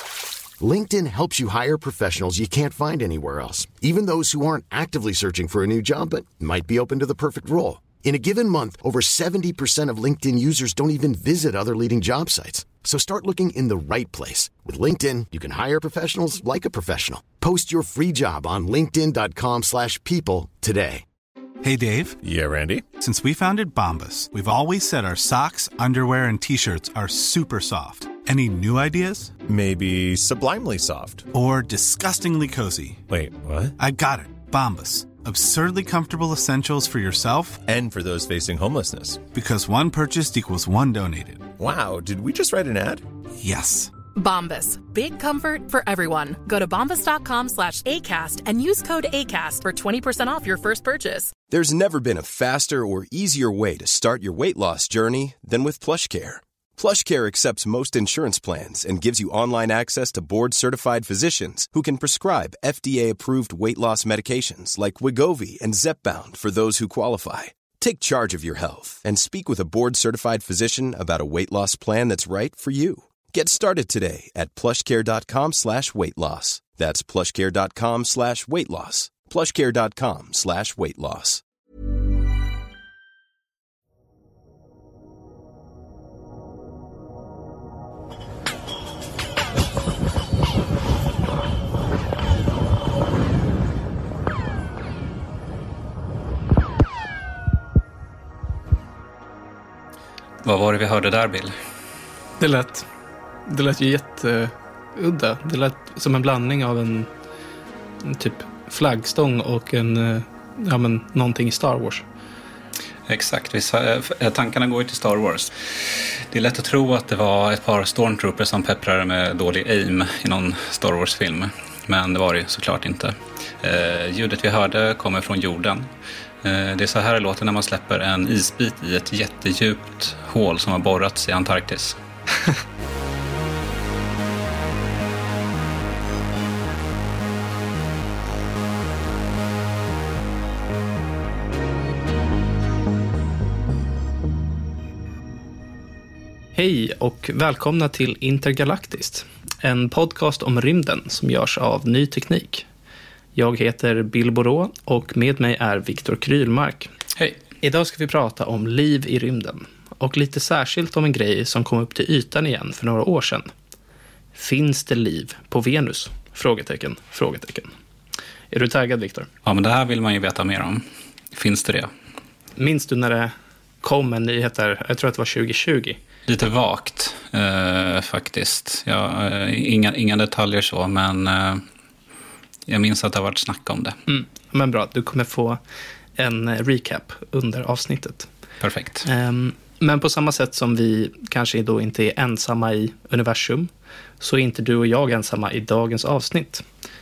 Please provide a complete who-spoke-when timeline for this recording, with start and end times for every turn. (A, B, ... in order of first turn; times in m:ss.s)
0:00.6-0:21.0 A
0:21.6-0:22.2 B
0:22.2-0:22.9 C
0:23.0-0:29.4 B
0:29.4-0:31.3 C
0:31.3-0:33.0 B
0:33.1-0:33.7 C
0:33.8-0:37.6 B
0:37.7-0:39.2 C
0:39.3-0:41.5 B
0:41.6-0:43.0 C
0:43.4-0:43.9 B
0:44.1-0:51.3 D
0:51.5-1:21.4 E
1:40.4-1:41.5 F
1:42.4-1:42.9 G
1:43.5-1:47.1 G
1:48.0-1:52.0 G
1:53.1-1:55.5 F
1:56.3-2:05.9 F
2:06.4-2:12.0 F
2:26.5-2:32.6 G
2:33.3-2:36.9 G
2:37.6-2:43.5 G
2:44.3-2:47.7 G
2:48.5-2:49.3 G
2:49.4-2:51.9 F
2:52.6-2:56.0 G
2:56.3-3:01.6 F
3:02.7-3:04.0 F
3:04.1-3:05.6 G
3:06.2-3:08.3 G
3:08.6-3:09.0 F
3:09.0-3:13.7 G
3:14.2-3:16.6 G